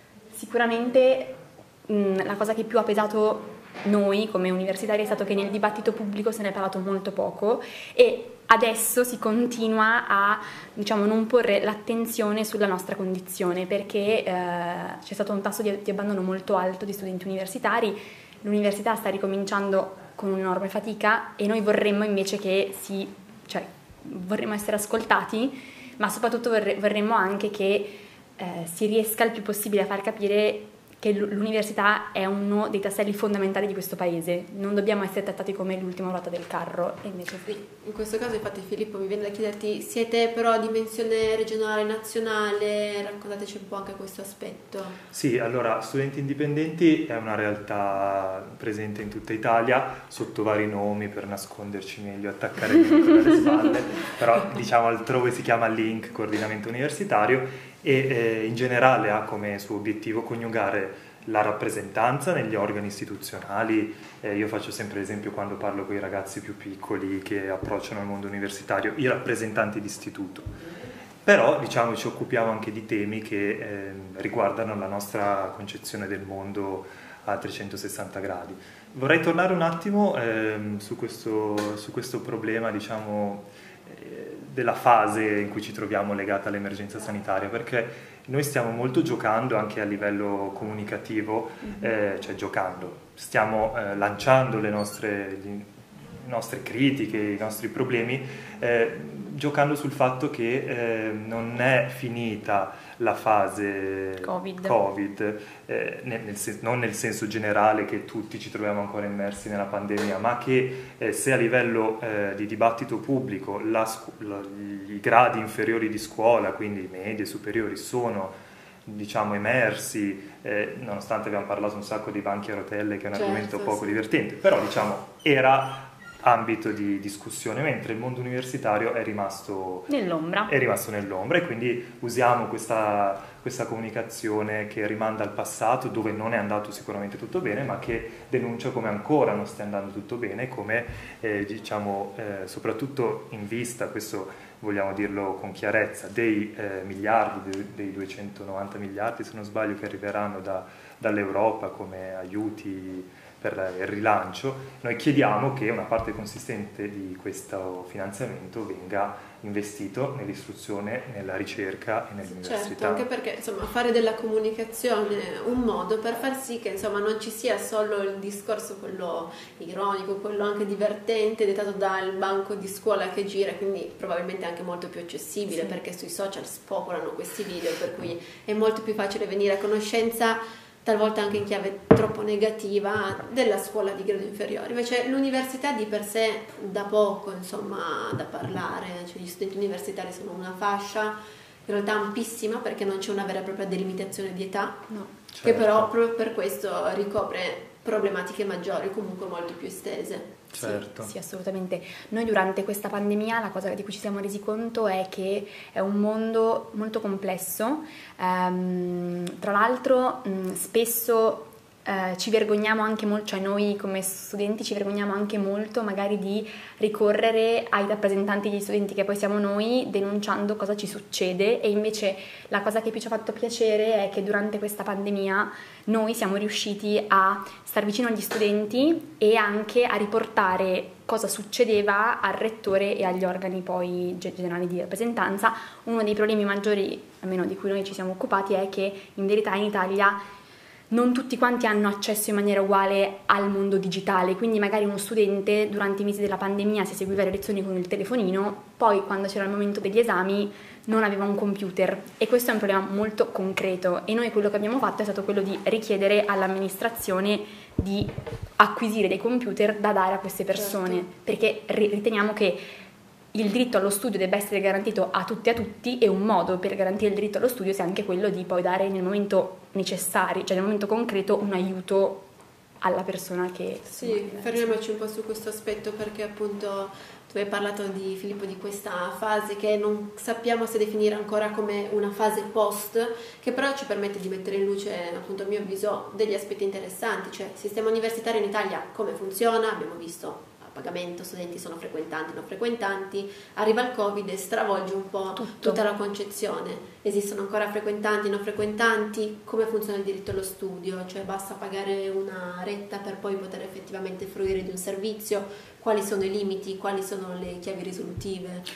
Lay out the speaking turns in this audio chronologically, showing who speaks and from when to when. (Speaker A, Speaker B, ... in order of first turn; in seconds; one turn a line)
Speaker A: 0.3-37.5
Speaker B: 37.5-45.0
Speaker C: 45.1-70.5
Speaker C: 71.2-129.9
Speaker A: 104.2-104.8
Speaker B: 123.1-123.9
Speaker A: 129.9-130.5
Speaker C: 130.5-163.1
Speaker B: 162.4-194.9
Speaker A: 175.5-175.8
Speaker A: 194.9-195.2
Speaker C: 195.3-195.9
Speaker B: 195.4-200.4
Speaker C: 200.5-201.1
Speaker A: 200.6-240.2
Speaker A: 240.9-262.6
Speaker B: 260.5-261.1
Speaker A: 263.3-272.3
Speaker A: 272.8-274.8
Speaker B: 273.9-308.7
Speaker A: 295.4-295.8